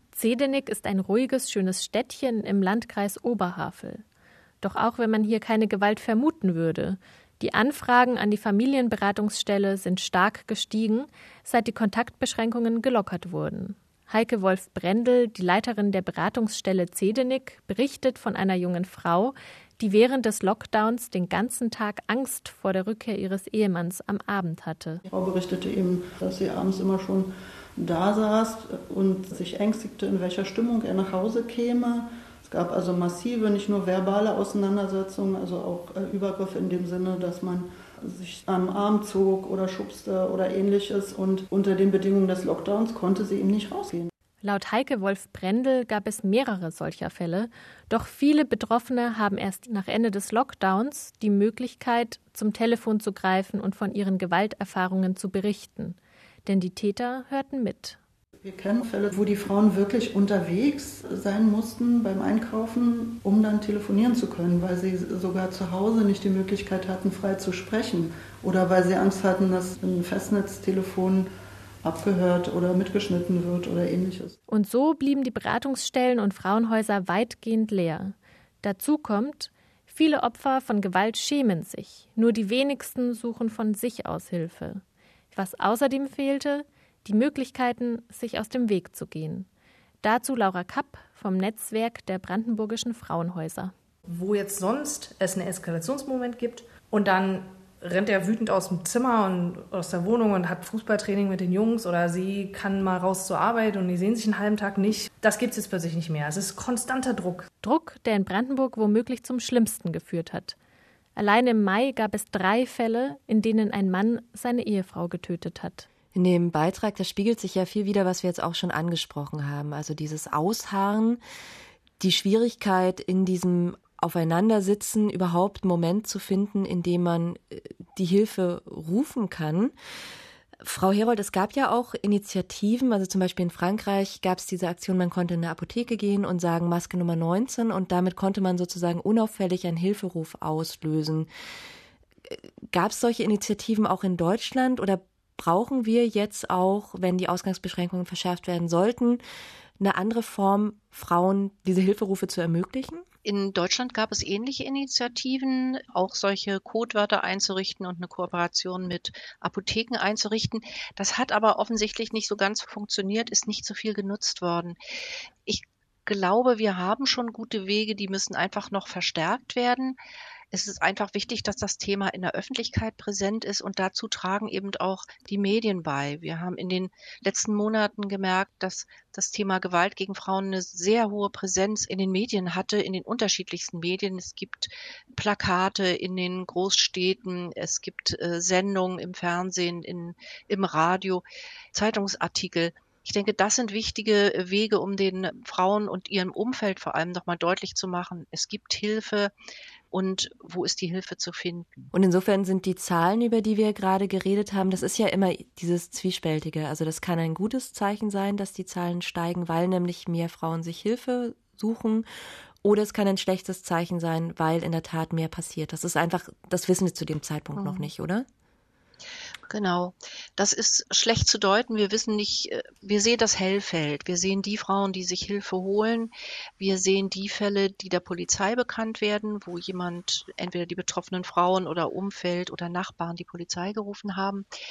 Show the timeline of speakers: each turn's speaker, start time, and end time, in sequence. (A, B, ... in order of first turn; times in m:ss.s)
0:00.1-0:04.0 A
0:04.6-0:25.0 A
0:25.1-0:44.1 B
0:44.4-0:58.0 A
0:58.4-1:11.3 B
1:11.8-1:14.4 B
1:14.5-1:29.5 A
1:30.0-1:33.7 A
1:34.1-1:47.5 C
1:47.6-1:50.6 A
1:51.2-1:55.9 A
1:56.1-2:01.2 D
2:02.0-2:09.7 D
2:10.6-2:21.3 D
2:22.3-2:29.2 D
2:29.8-2:33.1 D
2:33.2-2:44.8 E
2:45.4-2:50.0 E
2:50.5-3:19.3 E
3:19.9-3:21.8 E
3:21.9-3:32.1 D
3:32.6-3:38.3 D
3:37.6-3:37.9 E
3:39.5-3:54.4 E